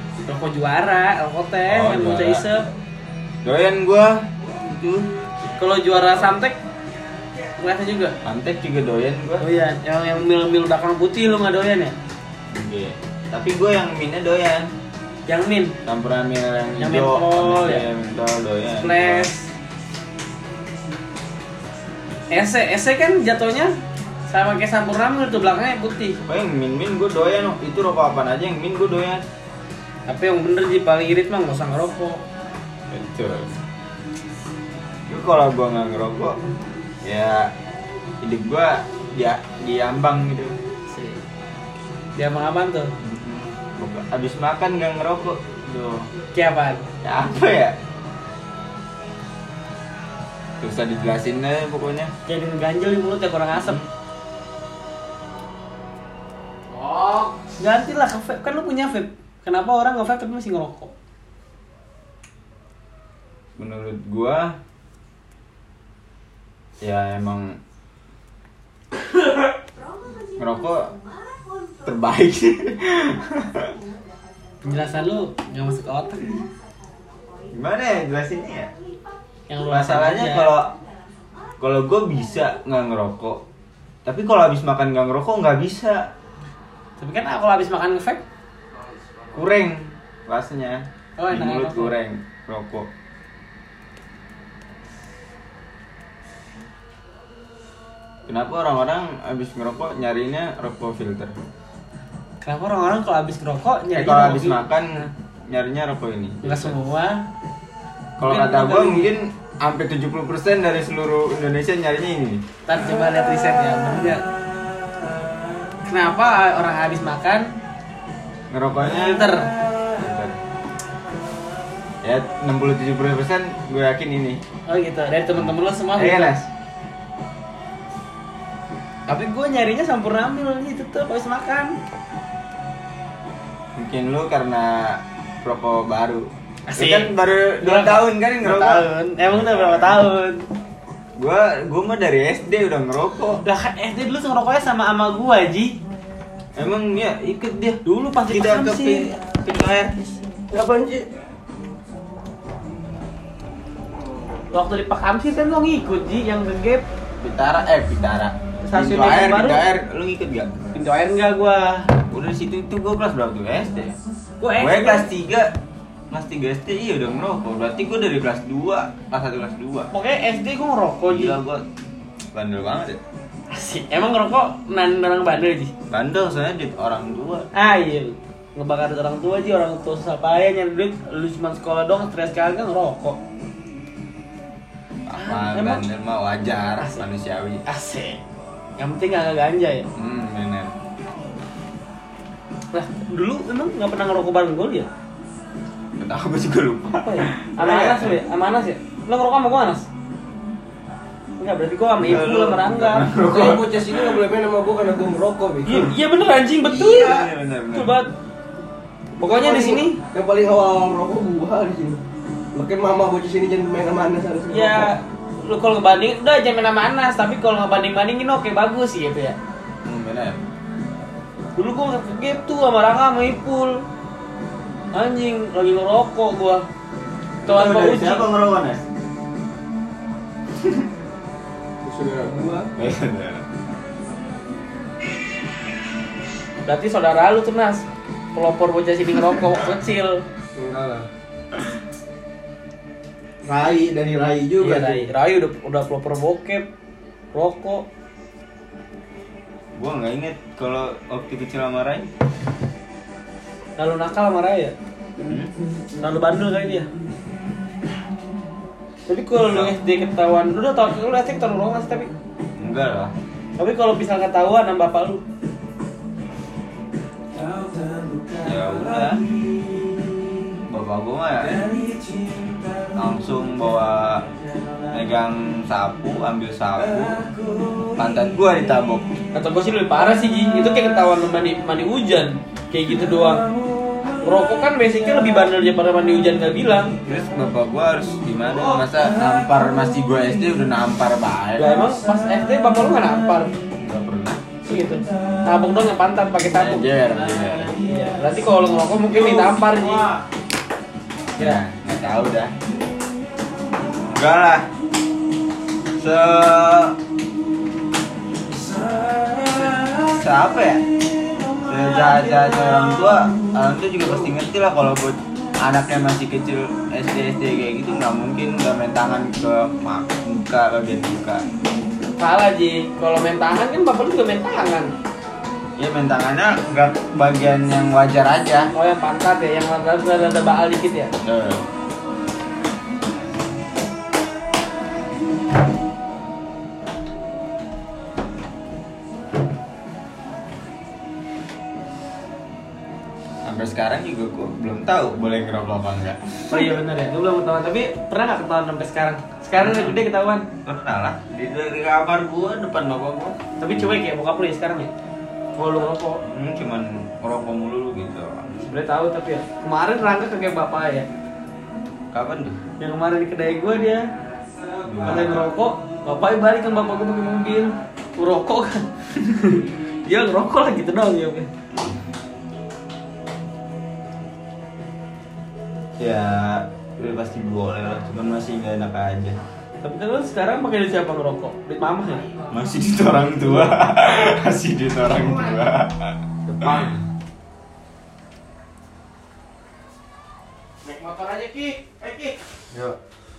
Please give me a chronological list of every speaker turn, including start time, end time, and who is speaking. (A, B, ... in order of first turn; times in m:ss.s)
0:00.2-0:02.7 A
0:01.7-0:02.4 B
0:03.4-0:05.1 B
0:05.6-0:06.6 A
0:07.6-0:08.1 A
0:08.2-0:09.4 B
0:09.4-0:11.9 A
0:12.5-0:14.7 B
0:15.3-0:15.8 A
0:15.8-0:19.3 B
0:16.8-0:17.8 A
0:18.8-0:19.5 A
0:22.3-0:23.7 A
0:24.3-0:26.2 A
0:26.2-0:29.2 B
0:30.1-0:32.2 A
0:32.9-0:33.6 B
0:35.1-0:36.4 B
0:37.0-0:37.5 B
0:38.2-0:40.5 B
0:40.9-0:41.2 A
0:42.2-0:42.9 A
0:43.0-0:46.1 B
0:46.3-0:46.9 A
0:47.0-0:47.7 B
0:50.6-0:52.1 B
0:52.2-0:53.8 A
0:53.5-0:53.9 B
0:56.9-0:57.2 C
0:57.6-1:00.9 A
1:03.6-1:04.5 B
1:06.8-1:07.6 B
1:10.4-1:10.9 B
1:11.8-1:13.7 B
1:14.6-1:16.4 A
1:17.5-1:18.7 B
1:19.5-1:20.5 A
1:19.7-1:20.7 B
1:21.6-1:23.4 B
1:24.0-1:26.1 B
1:27.0-1:28.2 A
1:29.3-1:32.9 B
1:31.2-1:31.9 A
1:38.3-1:41.3 B
1:42.4-1:45.1 A
1:43.9-1:46.8 B
1:46.4-1:47.2 A
1:48.2-1:52.4 B
1:48.2-1:49.1 A
1:52.7-1:54.2 A
1:55.8-1:57.5 A
1:58.5-2:00.4 B
1:58.8-1:59.5 A
2:02.0-2:04.4 B
2:04.7-2:06.4 A
2:05.4-2:06.5 B
2:09.1-2:11.8 A
2:13.8-2:20.0 B
2:16.7-2:20.4 A
2:21.2-2:23.4 B
2:23.4-2:25.7 A
2:26.5-2:30.0 B
2:27.8-2:29.0 A
2:30.5-2:31.1 C
2:34.5-2:36.8 A
2:37.2-2:40.6 B
2:38.6-2:39.6 A
2:40.7-2:41.9 A
2:42.1-2:44.0 B
2:44.4-2:45.1 A
2:44.6-2:45.5 B
2:46.1-2:49.9 B
2:49.9-2:51.4 A
2:51.1-2:51.6 B
2:52.3-2:53.0 B
2:53.5-2:55.7 A
2:55.9-2:57.5 B
2:57.5-3:03.2 A
3:05.0-3:07.6 B
3:05.1-3:05.8 A
3:06.8-3:07.0 A
3:07.6-3:08.2 A
3:08.8-3:09.9 A
3:10.0-3:10.7 B
3:12.7-3:14.9 A
3:16.0-3:18.2 B
3:16.9-3:19.9 A
3:21.4-3:23.1 A
3:22.0-3:24.2 B
3:23.2-3:25.9 C
3:25.6-3:28.1 A
3:26.7-3:27.9 B
3:29.2-3:30.0 A
3:29.2-3:34.9 C
3:34.5-3:39.4 A
3:39.8-3:40.4 B
3:41.6-3:43.8 A
3:44.9-3:46.6 A
3:47.4-3:48.2 A
3:47.4-3:48.8 B
3:51.8-3:52.7 C
3:52.8-3:53.4 B
3:56.6-3:57.8 A
3:58.3-4:00.2 A
4:00.5-4:01.1 C
4:03.4-4:04.9 C
4:04.6-4:06.7 A
4:07.3-4:07.8 A
4:09.7-4:12.1 B
4:13.8-4:14.7 A
4:15.2-4:15.5 B
4:16.0-4:16.9 A
4:19.1-4:22.1 A
4:19.4-4:19.7 B
4:22.6-4:23.1 B
4:23.6-4:25.2 A
4:28.4-4:29.3 B
4:30.7-4:31.6 B
4:32.9-4:34.2 B
4:34.9-4:37.3 B
4:37.9-4:39.0 B
4:39.3-4:43.5 A
4:44.2-4:47.0 A
4:47.0-4:51.8 B
4:51.6-4:53.5 A
4:53.8-4:54.4 B
4:54.6-4:56.9 A
4:56.5-4:57.8 B
4:57.8-5:00.1 A
5:01.4-5:02.5 B
5:04.1-5:04.7 B
5:06.0-5:06.9 B
5:09.2-5:10.8 B
5:11.6-5:21.4 B
5:22.2-5:24.9 A
5:25.8-5:28.7 B
5:28.7-5:31.1 A
5:31.2-5:31.6 B
5:43.4-5:46.8 B
5:46.5-5:50.5 A
5:49.6-5:50.0 B
5:50.6-5:53.4 B
5:53.6-5:54.9 A
5:55.6-5:56.2 A
5:56.2-5:58.6 B
5:58.6-6:01.1 A
6:02.1-6:02.6 B
6:02.8-6:04.0 A
6:04.8-6:05.5 B
6:05.0-6:11.5 A
6:16.0-6:19.4 B
6:19.8-6:22.3 A
6:22.5-6:27.0 B
6:26.5-6:27.0 C
6:30.8-6:33.0 C